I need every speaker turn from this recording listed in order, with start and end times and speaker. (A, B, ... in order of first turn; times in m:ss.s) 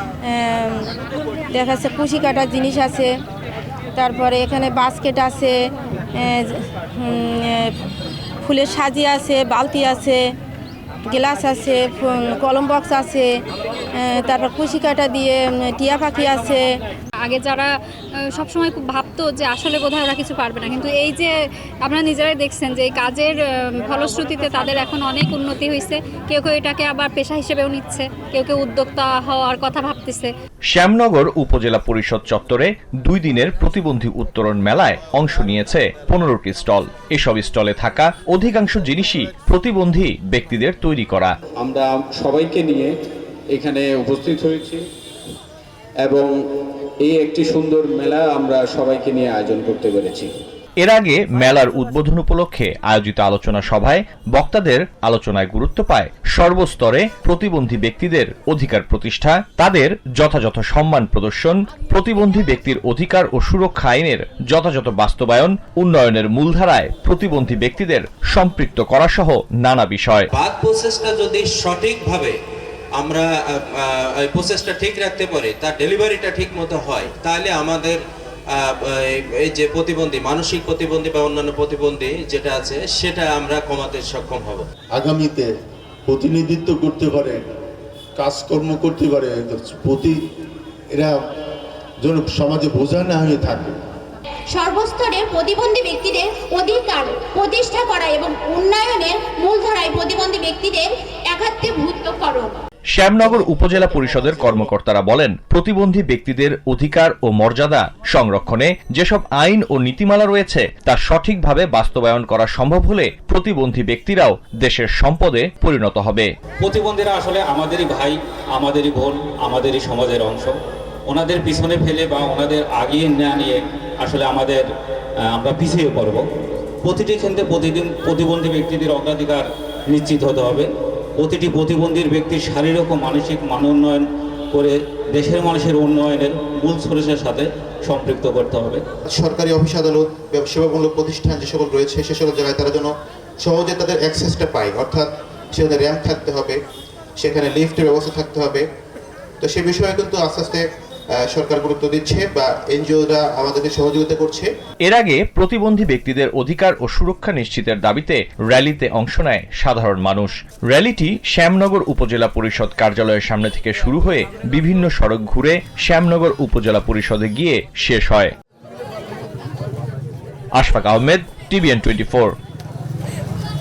0:00.2-0:00.9 A
0:01.5-0:03.1 A
0:03.9-0:05.6 A
0:06.2-0:07.7 A
0:08.4-0:10.2 A
0:11.0-0:13.3 A
0:13.9-0:16.7 A
0:17.2-0:17.7 B
0:18.4-0:21.3 B
0:21.8-0:30.3 B
0:30.7-0:41.3 C
0:42.2-0:42.8 D
0:43.7-0:44.5 D
0:47.1-0:50.2 D
0:50.8-1:10.3 C
1:10.3-1:12.4 E
1:13.0-1:18.0 E
1:18.5-1:24.7 E
1:24.9-1:25.5 F
1:26.1-1:27.4 F
1:28.2-1:30.2 F
1:32.0-1:33.8 F
1:34.5-1:42.6 G
1:42.9-1:56.3 C
1:56.6-2:00.6 H
2:01.1-2:04.6 H
2:05.3-2:06.2 H
2:06.8-2:10.7 H
2:11.2-2:18.8 H
2:19.1-2:26.6 I
2:27.2-2:28.7 I
2:29.4-2:30.6 I
2:31.2-2:34.5 I
2:34.8-2:48.3 C
2:50.6-2:52.3 C